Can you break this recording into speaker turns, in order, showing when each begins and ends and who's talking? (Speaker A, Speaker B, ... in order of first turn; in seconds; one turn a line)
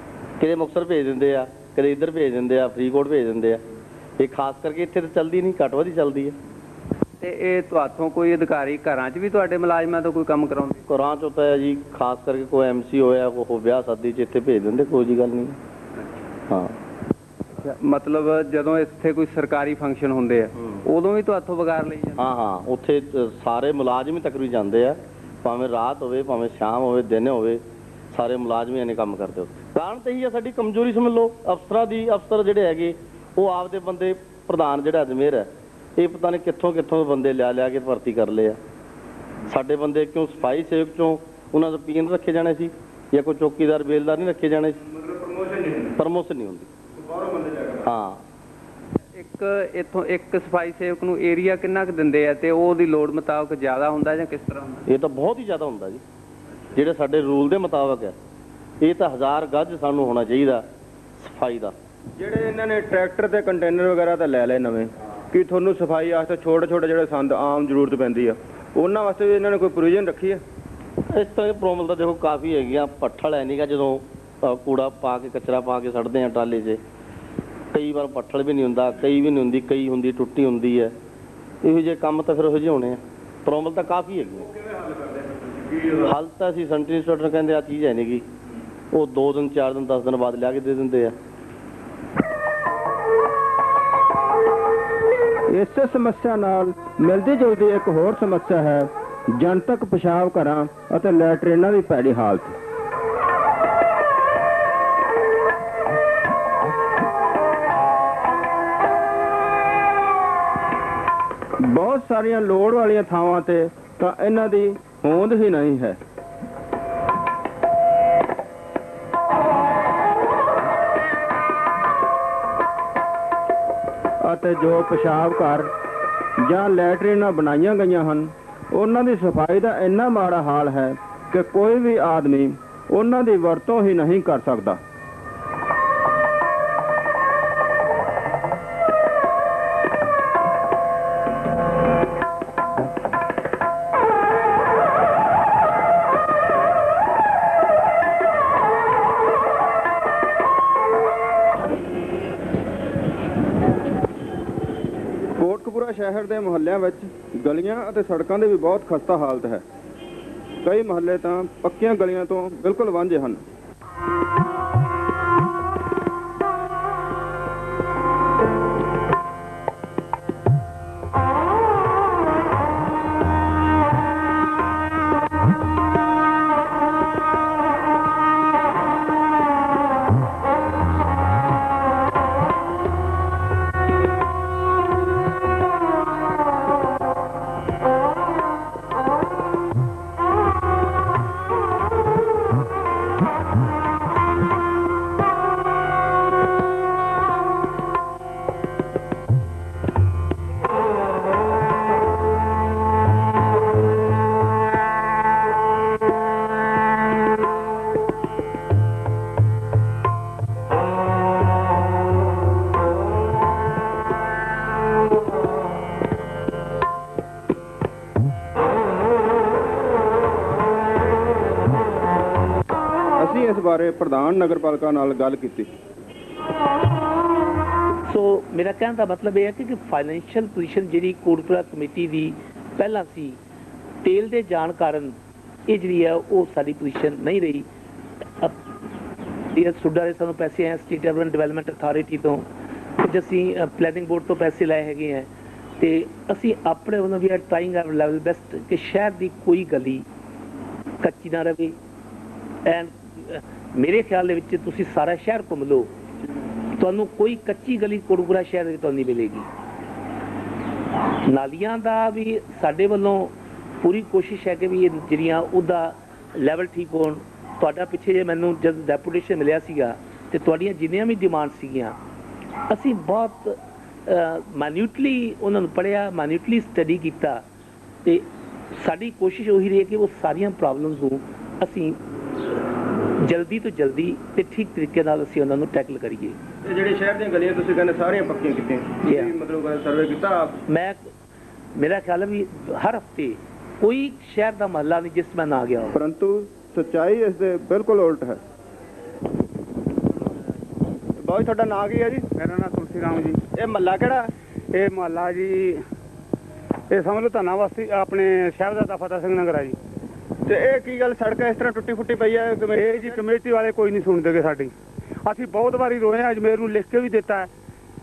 Speaker A: 0.4-3.6
Speaker A: 4.2-6.3
Speaker B: 7.2-10.8
Speaker A: 10.9-15.6
Speaker A: 16.5-16.7
Speaker B: 17.6-22.3
Speaker A: 22.2-38.6
Speaker A: 39.5-44.8
Speaker C: 44.9-45.9
Speaker A: 46.0-46.7
Speaker C: 47.0-47.9
Speaker A: 47.8-48.2
Speaker B: 49.1-54.8
Speaker A: 54.9-56.0
Speaker A: 56.7-58.1
Speaker A: 58.8-60.6
Speaker A: 61.2-61.7
Speaker C: 62.2-70.4
Speaker A: 71.1-76.8
Speaker A: 77.7-80.9
Speaker A: 81.6-84.5
Speaker A: 86.0-88.2
Speaker A: 88.9-91.1
Speaker C: 95.5-102.5
Speaker C: 111.6-116.0
Speaker C: 124.2-125.7
Speaker C: 126.4-134.8
Speaker C: 155.4-159.6
Speaker C: 160.6-163.4
Speaker C: 223.2-225.7
Speaker D: 228.1-233.4
Speaker D: 234.0-235.2
Speaker D: 235.7-237.7
Speaker D: 239.5-242.4
Speaker D: 243.0-250.1
Speaker D: 251.0-251.8
Speaker D: 252.6-255.9
Speaker D: 256.8-259.5
Speaker D: 261.2-272.0
Speaker D: 272.7-277.4
Speaker D: 278.0-282.0
Speaker D: 283.2-286.4
Speaker E: 286.7-288.5
Speaker D: 289.0-289.3
Speaker E: 289.1-290.3
Speaker D: 290.7-291.1
Speaker D: 291.7-296.0
Speaker C: 295.9-298.4
Speaker C: 301.2-302.2
Speaker F: 302.4-303.4
Speaker E: 303.6-304.2
Speaker F: 304.7-305.8
Speaker F: 306.9-309.8
Speaker E: 310.5-313.1
Speaker F: 312.7-314.7
Speaker F: 315.2-317.5